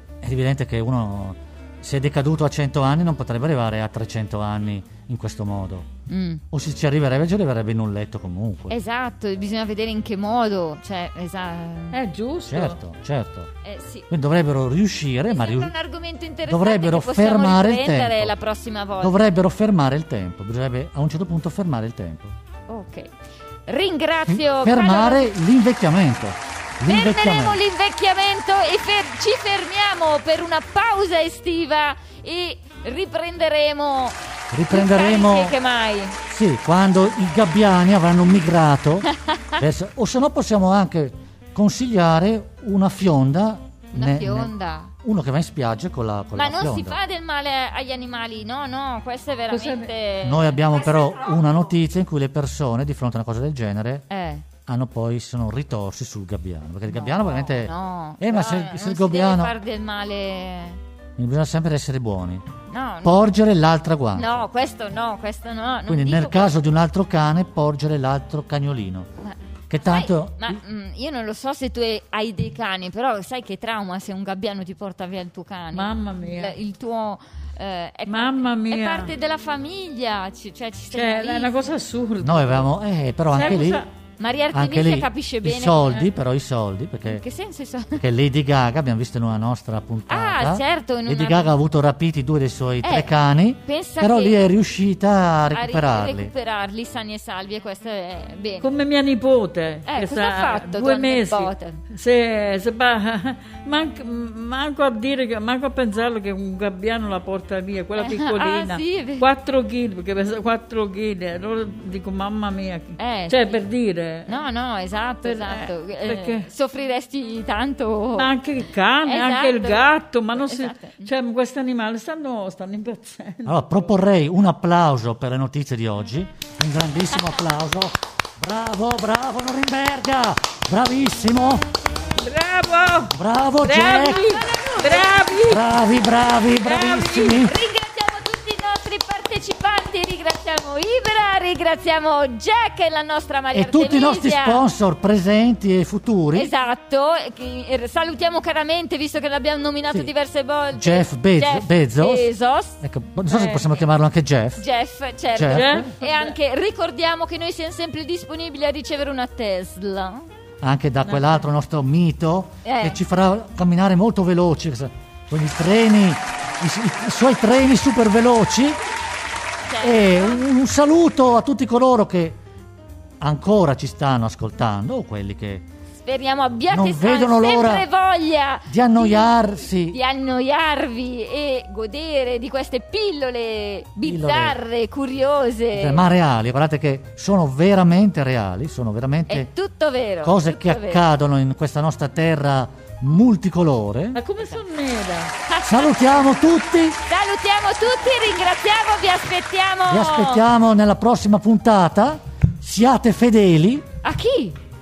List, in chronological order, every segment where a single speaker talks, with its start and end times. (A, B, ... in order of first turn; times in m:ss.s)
0:00.2-0:05.9 A
0:06.1-0:06.4 B
0:06.5-0:08.7 A
0:08.7-0:12.0 B
0:11.9-0:12.8 C
0:12.4-0:13.5 A
0:13.6-0:14.1 B
0:14.1-0:15.7 A
0:15.3-0:19.2 B
0:16.5-0:18.3 A
0:19.0-0:22.3 A
0:22.7-0:23.1 B
0:23.7-0:25.3 B
0:24.3-0:27.6 A
0:26.8-0:34.2 B
0:34.5-0:35.6 A
0:34.7-0:36.2 B
0:36.3-0:47.0 A
0:39.2-0:39.6 B
0:43.9-0:44.9 B
0:46.3-0:50.6 B
0:49.5-0:49.9 C
0:50.2-0:54.0 A
0:54.1-0:54.4 B
0:54.6-0:59.6 A
0:56.9-1:00.8 B
1:01.2-1:02.5 A
1:02.7-1:03.2 B
1:03.0-1:04.4 A
1:04.1-1:06.6 B
1:05.9-1:09.1 A
1:09.2-1:21.5 B
1:09.7-1:10.6 A
1:15.7-1:16.5 C
1:18.1-1:19.1 C
1:20.9-1:22.7 C
1:22.2-1:23.8 A
1:23.4-1:23.9 C
1:24.2-1:26.1 B
1:24.5-1:27.2 A
1:27.0-1:28.0 B
1:28.0-1:36.3 A
1:30.1-1:31.5 B
1:32.8-1:33.1 B
1:33.6-1:34.4 B
1:35.5-1:38.7 B
1:38.6-1:54.3 C
1:39.9-1:41.8 B
1:48.0-1:49.3 B
1:53.0-1:53.6 B
1:54.2-1:58.3 B
1:55.2-1:56.5 C
1:58.2-2:03.9 C
1:59.0-2:01.1 B
2:03.4-2:11.7 A
2:12.2-2:15.6 C
2:13.1-2:14.2 A
2:14.2-2:15.4 B
2:15.5-2:17.5 A
2:16.6-2:17.4 C
2:17.1-2:24.6 B
2:23.5-2:26.5 A
2:26.3-2:32.8 B
2:30.7-2:32.3 A
2:32.8-2:34.6 A
2:33.3-2:33.6 C
2:34.6-2:40.3 B
2:35.3-2:35.9 A
2:35.5-2:36.3 C
2:40.6-2:48.8 A
2:42.6-2:43.0 B
2:49.7-2:50.4 B
2:49.8-2:52.4 A
2:53.2-2:55.6 A
2:56.0-3:06.0 B
2:56.7-2:57.8 A
2:58.7-3:00.0 A
3:04.0-3:04.6 A
3:05.7-3:09.5 A
3:09.3-3:11.0 B
3:10.2-3:14.2 A
3:14.1-3:15.3 C
3:15.5-3:16.2 B
3:15.6-3:17.0 A
3:17.0-3:20.4 B
3:19.9-3:23.9 A
3:24.0-3:24.6 B